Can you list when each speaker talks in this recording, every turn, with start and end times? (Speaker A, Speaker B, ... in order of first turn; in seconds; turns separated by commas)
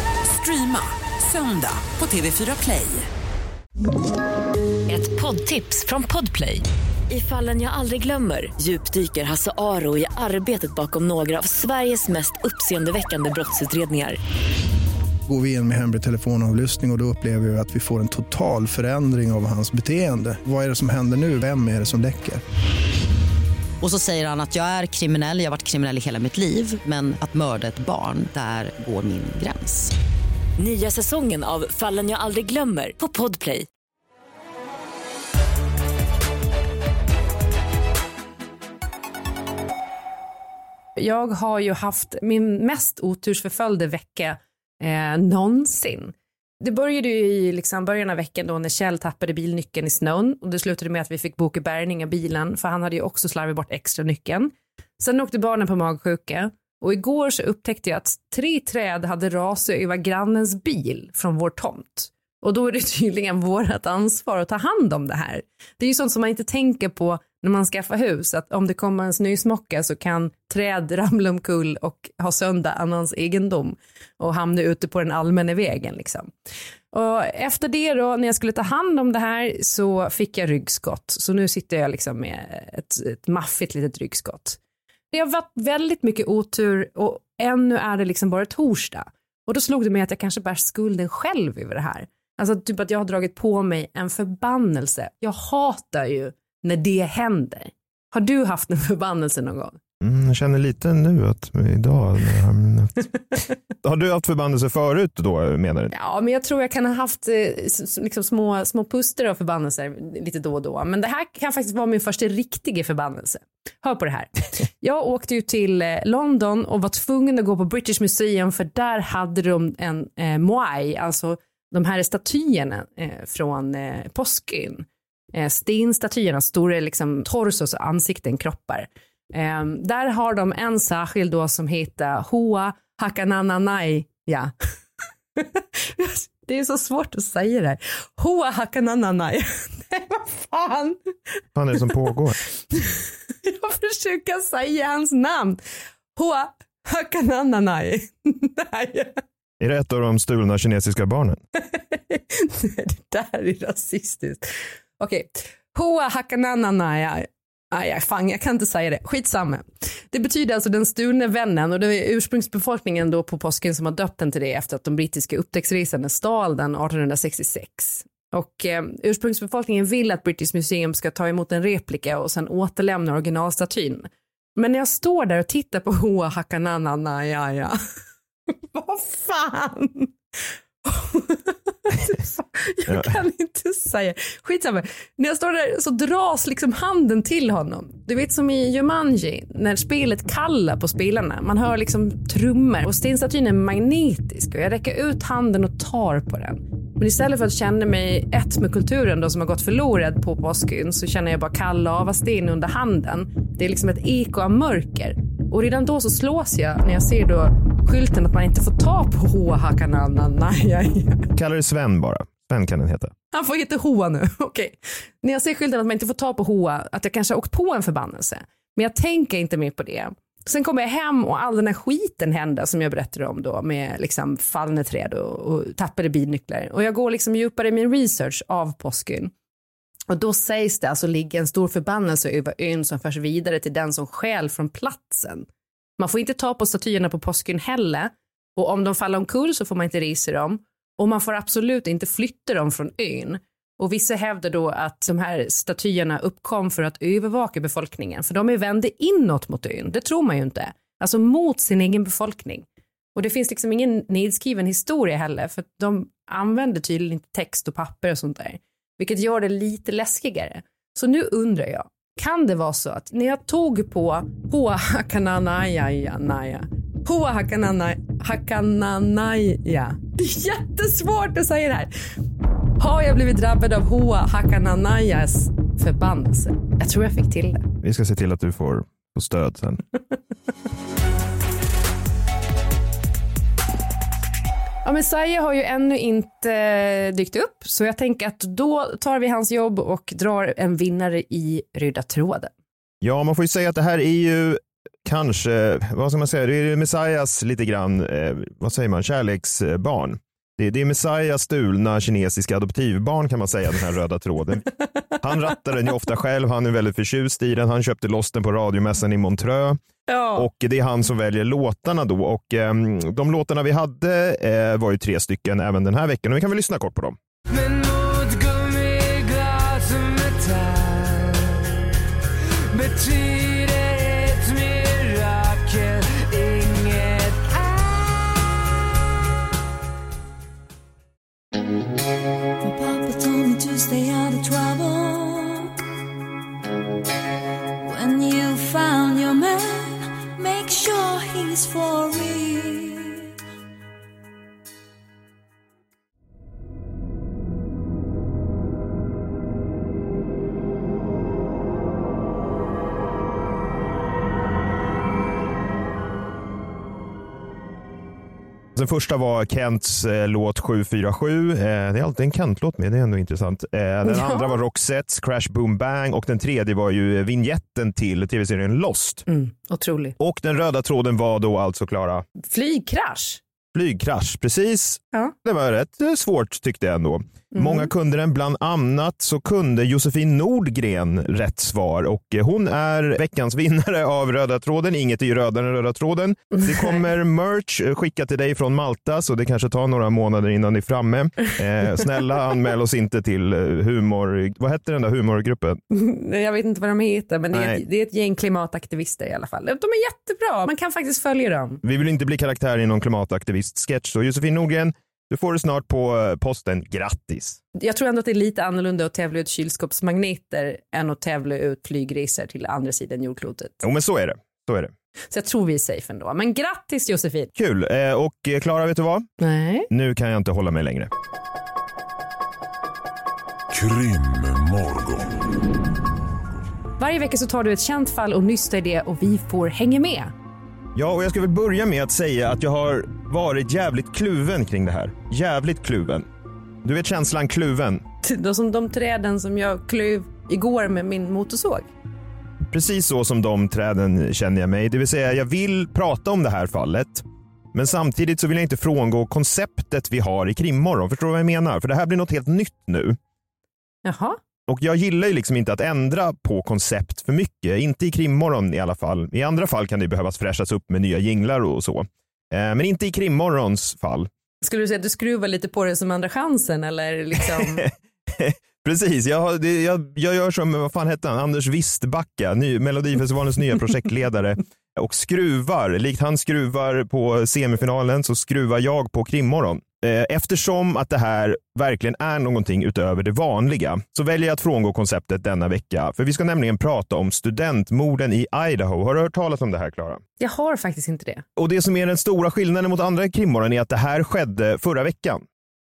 Speaker A: 0.2-3.1, Speaker B: 4.9-14.2, Speaker C: 15.3-22.4, Speaker D: 23.8-29.9, Speaker B: 30.6-33.7, Speaker E: 41.0-76.3, Speaker E: 76.9-84.6, Speaker E: 85.1-99.8, Speaker F: 100.0-105.9, Speaker E: 105.9-134.5, Speaker E: 135.3-141.1, Speaker F: 141.5-142.4, Speaker E: 142.7-145.6, Speaker E: 146.1-149.2, Speaker F: 149.6-151.4, Speaker E: 151.7-177.8, Speaker E: 178.7-180.1, Speaker E: 180.8-211.3, Speaker F: 182.9-183.1, Speaker F: 211.3-213.1, Speaker E: 213.3-229.3, Speaker E: 230.1-271.9, Speaker E: 272.8-277.6, Speaker F: 277.8-279.8, Speaker E: 284.8-292.5, Speaker F: 293.0-304.6, Speaker F: 305.2-309.8, Speaker E: 310.1-310.5, Speaker F: 310.3-317.2, Speaker B: 332.6-335.6, Speaker B: 337.9-343.2, Speaker F: 358.7-369.2, Speaker E: 364.0-364.6, Speaker E: 369.3-370.1, Speaker F: 370.2-372.2, Speaker E: 372.4-373.4, Speaker F: 373.7-395.8, Speaker E: 377.5-377.9, Speaker E: 395.9-401.8, Speaker F: 397.5-397.8, Speaker F: 401.8-407.6, Speaker E: 407.7-413.8, Speaker F: 413.8-414.9, Speaker E: 415.3-417.5, Speaker F: 417.5-419.2, Speaker E: 419.4-419.9, Speaker F: 419.9-421.1, Speaker E: 427.0-430.3, Speaker F: 430.9-436.2, Speaker F: 436.8-438.0, Speaker E: 438.2-441.9, Speaker F: 442.7-453.2, Speaker E: 454.0-454.4, Speaker F: 454.7-464.3, Speaker E: 464.6-467.9, Speaker F: 467.4-490.2, Speaker E: 490.4-491.4, Speaker F: 491.6-495.4